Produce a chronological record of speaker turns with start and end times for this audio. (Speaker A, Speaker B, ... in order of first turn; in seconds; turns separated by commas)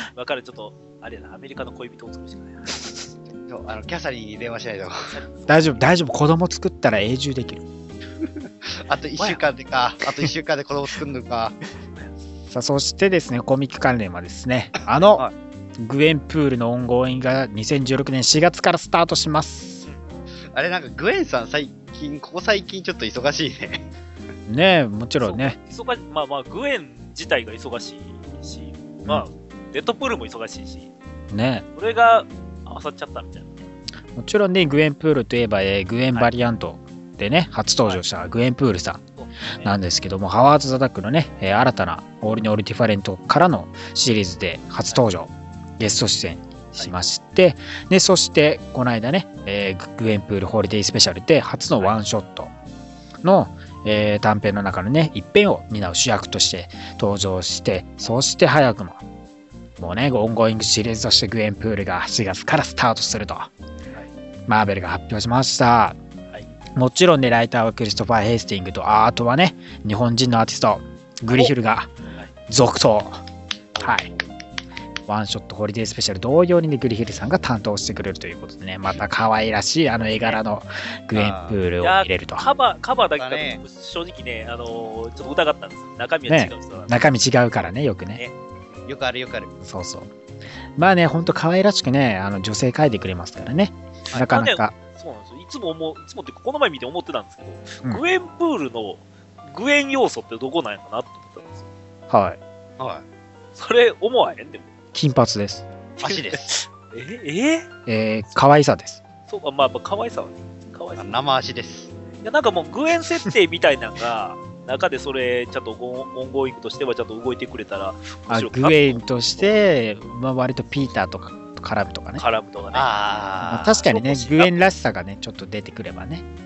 Speaker A: 0.1-2.9, Speaker B: 3.5-5.1, Speaker A: 5.0-5.9, Speaker C: 5.5-7.7, Speaker B: 8.4-11.6, Speaker A: 9.2-9.4, Speaker C: 12.5-15.2, Speaker C: 15.8-19.9, Speaker B: 20.5-23.8, Speaker C: 24.5-25.6, Speaker A: 25.2-30.9, Speaker C: 31.3-31.6, Speaker A: 31.7-33.7, Speaker C: 34.1-39.0, Speaker A: 39.1-39.8, Speaker C: 39.6-52.5, Speaker C: 53.2-59.0, Speaker C: 59.8-63.5, Speaker C: 64.5-66.0, Speaker C: 66.7-71.9, Speaker C: 72.5-73.2, Speaker B: 73.8-74.2, Speaker C: 73.8-74.1, Speaker C: 75.1-82.5, Speaker A: 80.0-80.4, Speaker B: 81.1-81.6, Speaker A: 81.8-87.0, Speaker B: 83.2-83.6, Speaker C: 86.3-88.2, Speaker B: 88.9-89.5, Speaker C: 89.6-90.1, Speaker C: 90.8-94.7, Speaker A: 94.1-101.7, Speaker C: 102.1-102.4, Speaker B: 102.8-103.0, Speaker A: 103.5-104.7, Speaker C: 104.9-105.6, Speaker B: 106.0-106.6, Speaker A: 106.0-107.7, Speaker C: 107.8-109.0, Speaker A: 109.3-111.1, Speaker B: 111.0-111.9, Speaker A: 112.2-119.5, Speaker C: 118.3-122.2, Speaker A: 122.2-124.6, Speaker B: 122.7-123.7, Speaker C: 123.5-126.2